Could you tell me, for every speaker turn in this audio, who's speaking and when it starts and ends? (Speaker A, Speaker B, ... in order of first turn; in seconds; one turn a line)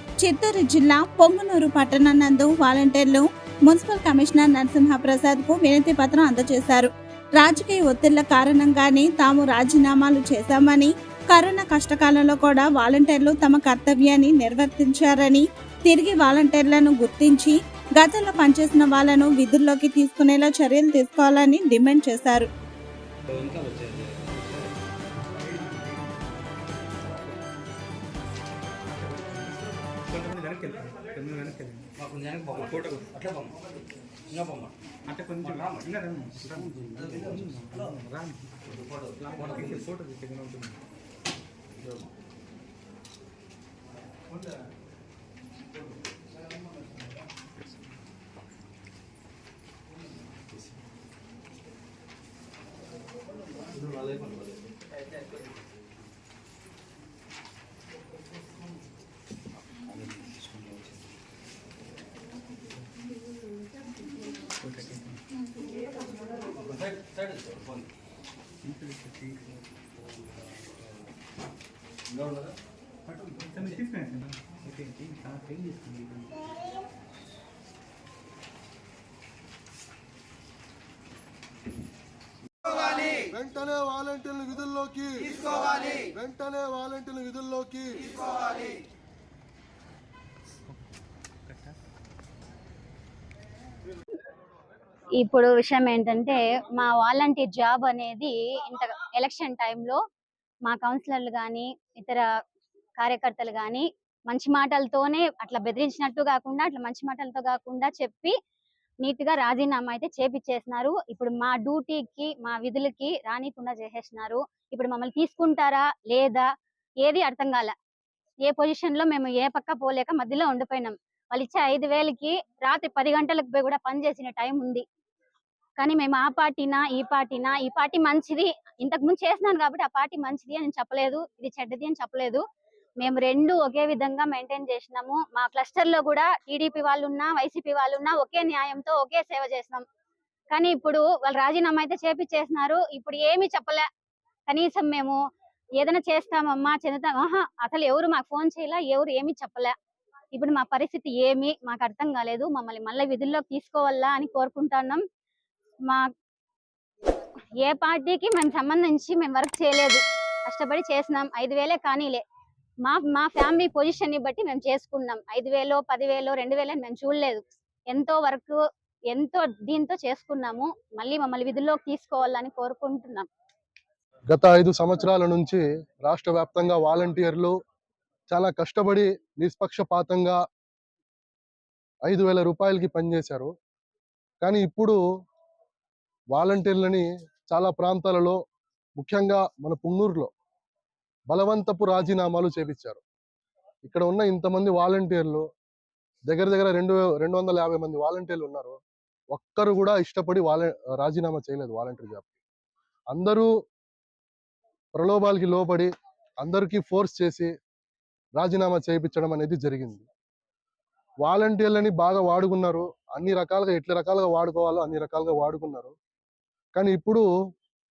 Speaker A: 0.2-22.5
Speaker B: 23.3-24.8
Speaker C: 25.5-26.0
Speaker C: 28.9-31.9
Speaker B: 32.0-33.6
Speaker B: 34.3-34.7
Speaker C: 35.1-38.6
Speaker B: 35.5-35.9
Speaker B: 36.8-37.5
Speaker B: 38.7-39.9
Speaker C: 39.2-40.8
Speaker B: 41.8-42.1
Speaker B: 53.8-54.6
Speaker B: 59.9-60.6
Speaker C: 64.6-65.2
Speaker B: 66.7-67.7
Speaker C: 68.6-69.6
Speaker B: 72.1-72.5
Speaker C: 73.5-76.5
Speaker D: 83.3-88.1
Speaker C: 91.5-91.8
Speaker E: 95.2-100.0
Speaker E: 100.7-102.2
Speaker E: 103.0-108.3
Speaker E: 109.0-116.5
Speaker E: 117.0-117.7
Speaker E: 118.5-124.8
Speaker E: 125.8-132.4
Speaker E: 133.0-139.8
Speaker E: 140.5-143.9
Speaker E: 144.5-145.2
Speaker E: 145.8-149.7
Speaker E: 150.3-155.0
Speaker E: 157.6-162.2
Speaker E: 162.8-168.6
Speaker E: 169.1-173.3
Speaker D: 174.3-177.5
Speaker D: 178.3-180.4
Speaker D: 182.1-183.5
Speaker D: 184.4-185.0
Speaker D: 186.3-188.4
Speaker D: 189.0-190.3
Speaker D: 191.3-193.0
Speaker D: 193.8-195.5
Speaker D: 196.3-198.8
Speaker D: 199.3-202.3
Speaker D: 203.1-203.5
Speaker D: 204.9-205.9
Speaker D: 206.4-207.5
Speaker D: 208.4-210.1
Speaker D: 211.2-215.9
Speaker D: 216.8-217.2